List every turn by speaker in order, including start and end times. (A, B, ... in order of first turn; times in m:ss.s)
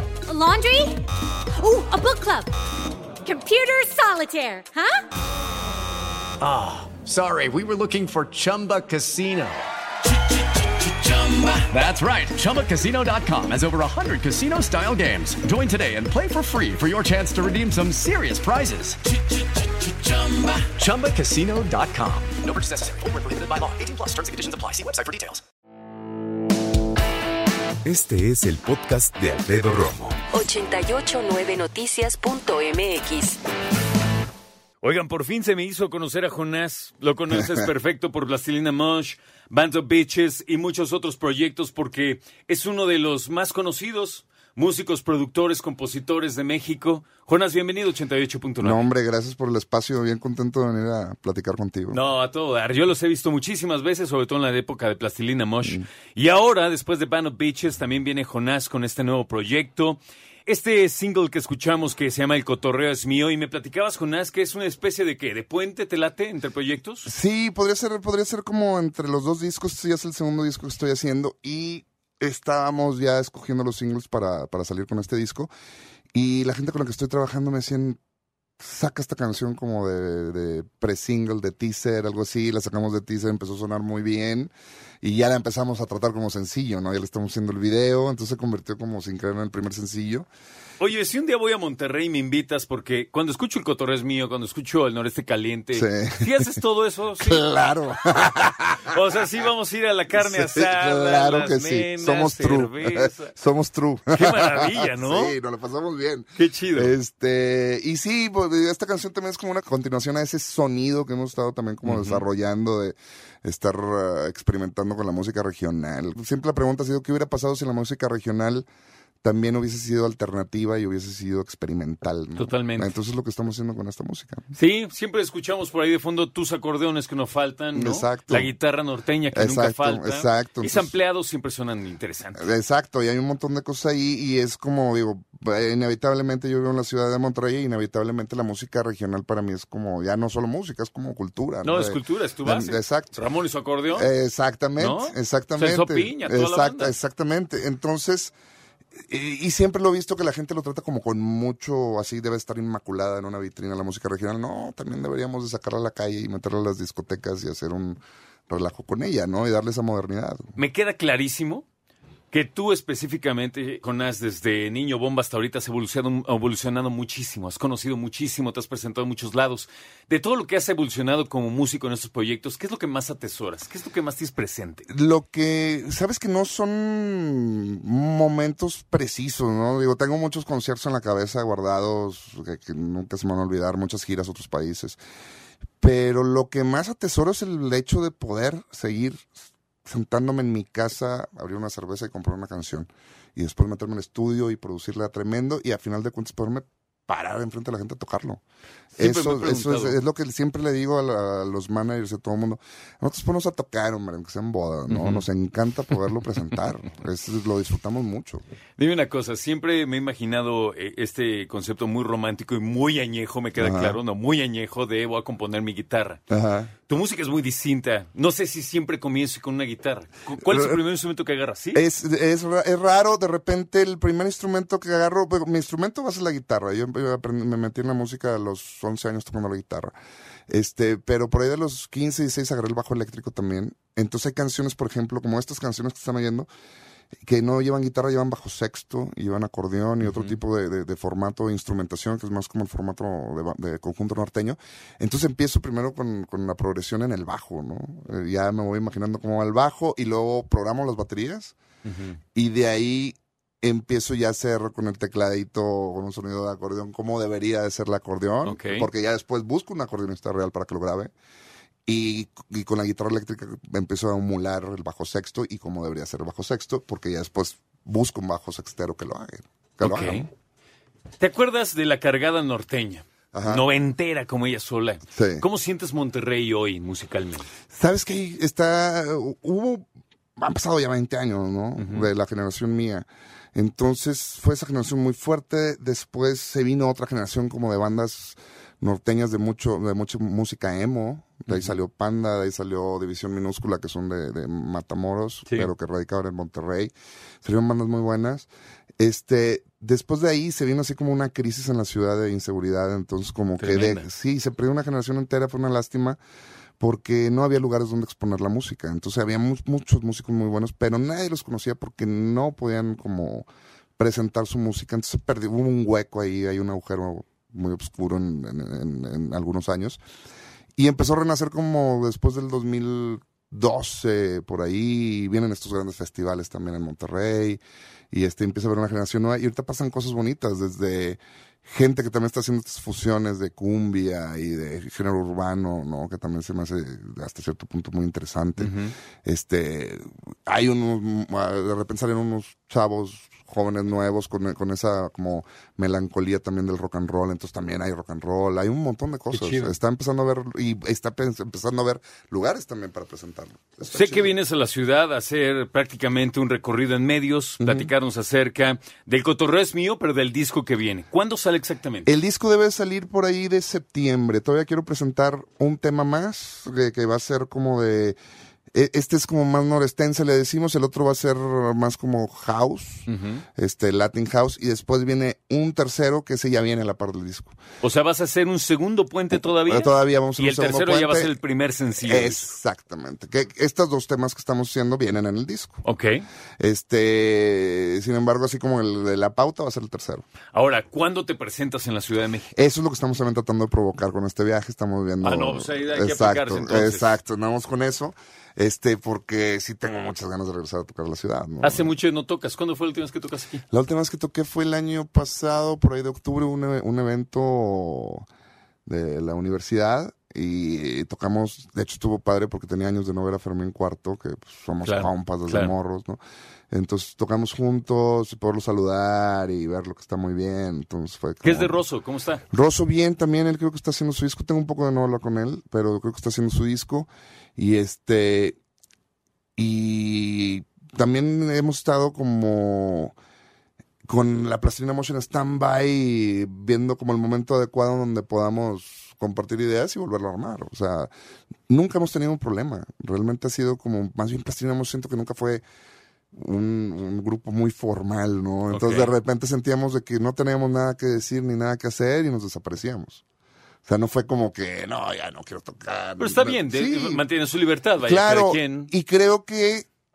0:00.3-0:01.0 A
0:01.6-0:02.5 A
0:03.2-0:05.0 A
0:06.4-0:09.6 B
0:10.8-0:19.0 B
0:19.9-0:25.4 B
0:27.8-0:30.2 C
0:30.3-0:33.4 D
0:34.8-0:48.8 E
0:48.6-0:52.0 F
0:51.9-1:07.1 E
1:07.0-1:15.5 F
1:16.1-1:18.0 F
1:18.6-1:30.3 F
1:30.8-1:37.5 E
1:35.7-1:36.6 F
1:37.2-1:39.0 F
1:38.8-1:43.3 E
1:40.1-1:58.7 F
1:44.1-1:45.4 E
1:46.4-1:46.9 E
1:51.8-1:52.2 E
1:59.2-2:04.5 F
2:02.4-2:02.9 E
2:04.5-2:12.5 E
2:07.7-2:08.5 F
2:09.3-2:10.9 F
2:12.4-2:23.2 F
2:21.6-2:24.1 E
2:23.9-2:28.3 F
2:24.8-2:26.9 E
2:29.1-2:40.6 F
2:40.6-2:41.6 E
2:42.3-2:54.8 E
2:54.9-3:05.0 F
3:05.8-3:09.3 F
3:09.8-3:18.4 F
3:19.0-3:28.4 F
3:19.0-3:20.0 E
3:24.9-3:25.2 E
3:28.8-3:36.2 E
3:33.6-3:34.0 F
3:36.3-3:36.7 F
3:36.9-3:41.8 E
3:40.4-3:40.8 F
3:41.7-3:49.9 F
3:50.5-3:56.5 F
3:57.2-4:11.5 F
4:00.0-4:00.4 E
4:11.9-4:12.2 E
4:12.3-4:21.1 F
4:18.4-4:18.9 E
4:21.8-4:30.3 F
4:29.8-4:30.3 E
4:31.2-4:37.5 E
4:33.3-4:33.6 F
4:35.1-4:35.4 F
4:37.7-4:39.8 F
4:40.4-4:58.5 F
4:41.8-4:42.1 E
4:51.5-4:51.7 E
4:59.0-5:06.2 F
5:03.6-5:04.0 E
5:06.8-5:13.5 F
5:14.0-5:20.0 F
5:20.8-5:54.3 F
5:38.6-5:38.9 E
5:49.3-5:49.7 E
5:53.9-6:02.1 E
5:57.6-5:57.9 F
6:02.0-6:08.2 F
6:08.7-6:17.6 F
6:13.1-6:13.4 E
6:17.8-6:22.4 E
6:19.6-6:21.3 F
6:22.0-6:25.8 F
6:25.8-6:26.2 E
6:26.6-6:30.2 F
6:30.5-6:32.5 E
6:32.5-6:41.9 F
6:35.2-6:37.1 E
6:41.6-6:43.6 E
6:43.7-6:48.2 F
6:48.8-6:56.2 F
6:54.8-6:55.7 E
6:56.7-7:01.8 F
7:01.4-7:02.4 E
7:02.5-7:08.6 F
7:09.6-7:13.2 F
7:14.1-7:21.1 F
7:21.7-7:25.6 F
7:26.3-7:33.2 F
7:28.7-7:29.1 E
7:33.8-7:37.2 F
7:36.2-7:38.9 E
7:38.0-7:39.9 F